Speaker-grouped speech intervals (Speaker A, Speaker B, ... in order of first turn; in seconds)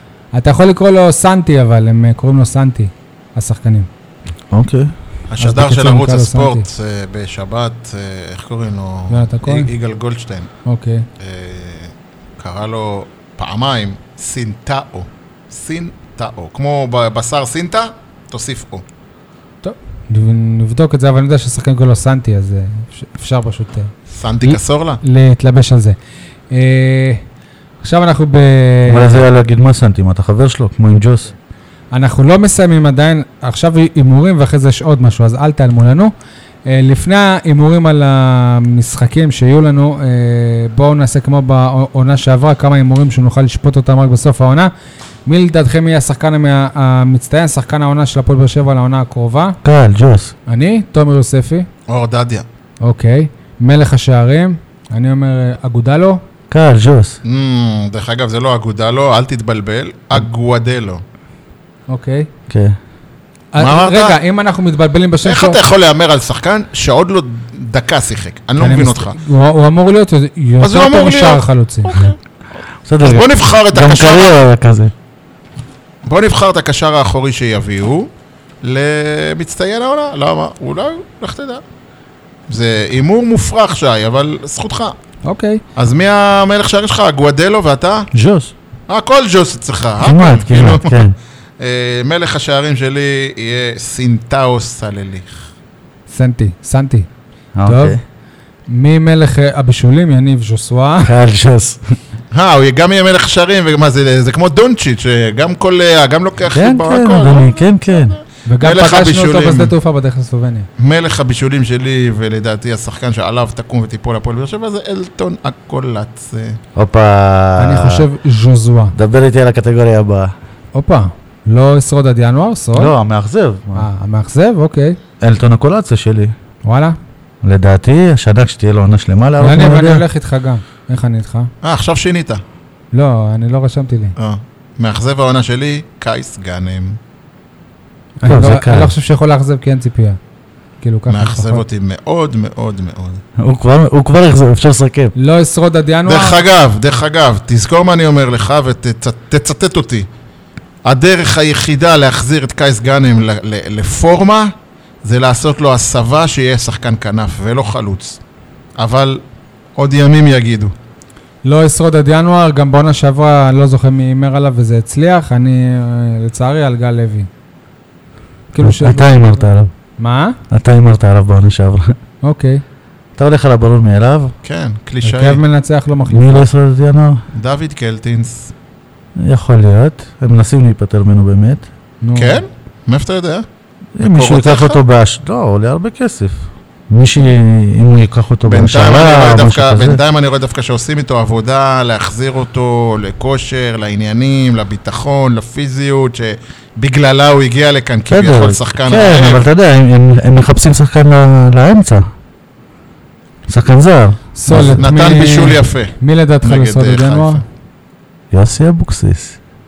Speaker A: 0.3-3.9, 5.4-6.7, 9.1-9.7, 10.7-11.1, 19.6-23.9, 24.4-26.0, 26.5-27.2, 27.8-29.2, 31.9-36.1, 36.7-44.7, 45.3-49.6, 50.5-51.7, 52.8-56.2, 61.9-62.3, 63.5-65.6, 68.6-72.0, 85.2-85.6, 96.1-97.1, 97.7-98.0, 98.7-101.1, 108.5-110.7, 117.6-118.9, 120.7-122.9, 123.8-125.0, 126.7-127.0, 129.4-131.5, 132.9-134.2, 138.2-140.2, 140.8-141.7, 145.2-146.4, 161.4-167.3, 168.5-169.5, 170.0-170.4, 172.2-172.6, 175.0-176.4, 182.0-182.4, 204.4-207.4
Speaker B: 4.5-4.9, 28.9-31.3, 49.6-50.3, 56.5-57.2, 62.5-62.8, 72.9-74.9, 88.1-88.5, 90.0-91.2, 97.6-98.0, 101.0-101.8, 106.5-108.2, 116.8-118.0, 118.9-120.3, 122.8-123.9, 125.2-126.3, 127.4-130.0, 138.2-138.9, 143.4-145.1, 168.6-169.7, 170.5-171.9, 173.2-174.3, 176.1-177.2, 179.2-181.7, 184.0-190.0, 198.1-202.1, 203.5-204.9, 208.3-209.4
Speaker C: 5.3-10.5, 11.2-18.8, 24.1-25.0, 51.9-52.5, 57.2-61.0, 63.6-64.2, 65.2-69.2, 70.6-72.2, 73.0-74.4, 76.1-78.1, 78.6-81.6, 82.5-84.9, 85.8-88.1, 88.9-91.0, 91.6-95.5, 102.3-109.7, 110.8-116.6, 131.6-132.4, 134.2-137.0, 141.1-143.2, 146.1-150.1, 150.9-154.5, 155.0-158.2, 158.8-159.2, 159.8-160.7, 174.4-175.4, 177.3-178.5, 182.2-183.5, 184.0-184.8, 188.5-199.5, 204.5-207.4